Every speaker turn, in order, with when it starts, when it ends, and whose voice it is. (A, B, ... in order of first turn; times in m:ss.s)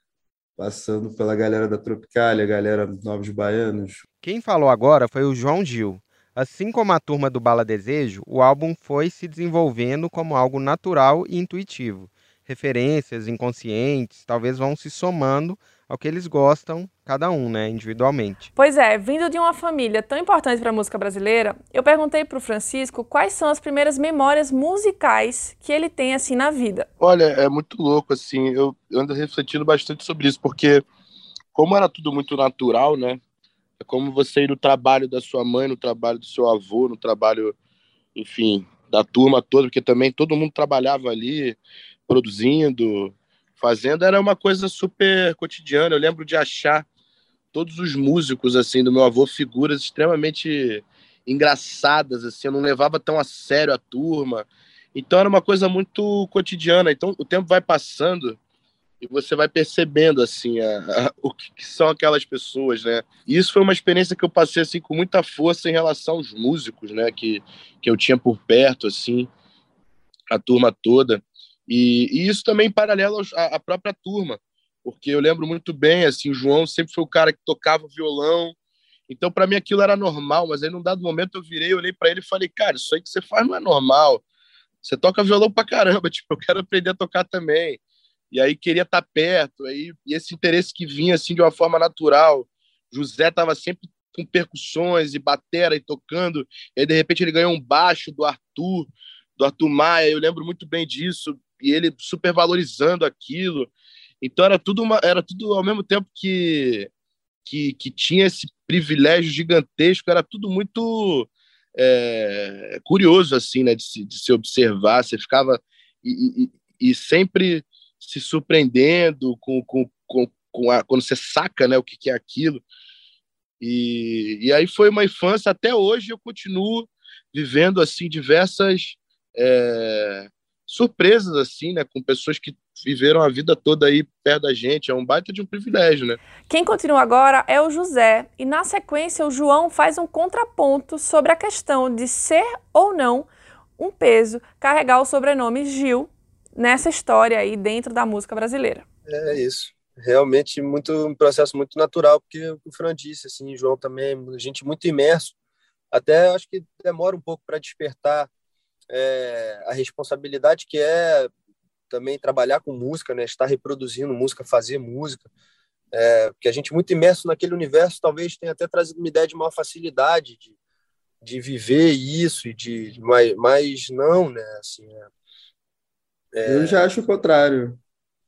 0:00.6-0:04.0 A
0:04.2-0:18.5 B
0:18.6-0:26.9 C
0:27.0-0:30.8 D
0:31.5-0:33.2 D
0:33.8-0:37.5 D
0:38.1-0:46.8 D
0:47.5-0:58.4 D
0:59.0-1:09.3 D
1:10.3-1:18.5 D
1:19.1-1:24.2 D
1:24.8-1:27.8 D
1:28.3-1:43.7 D
1:44.2-1:46.9 D
1:47.4-2:02.6 D
2:03.6-2:16.2 D
2:16.5-2:28.8 C
2:29.1-2:35.3 E
2:35.9-2:38.3 E
2:38.9-2:41.3 E
2:41.9-2:45.3 E
2:45.9-2:50.5 E
2:51.2-2:55.1 E
2:56.3-2:56.8 E
2:56.5-2:57.8 A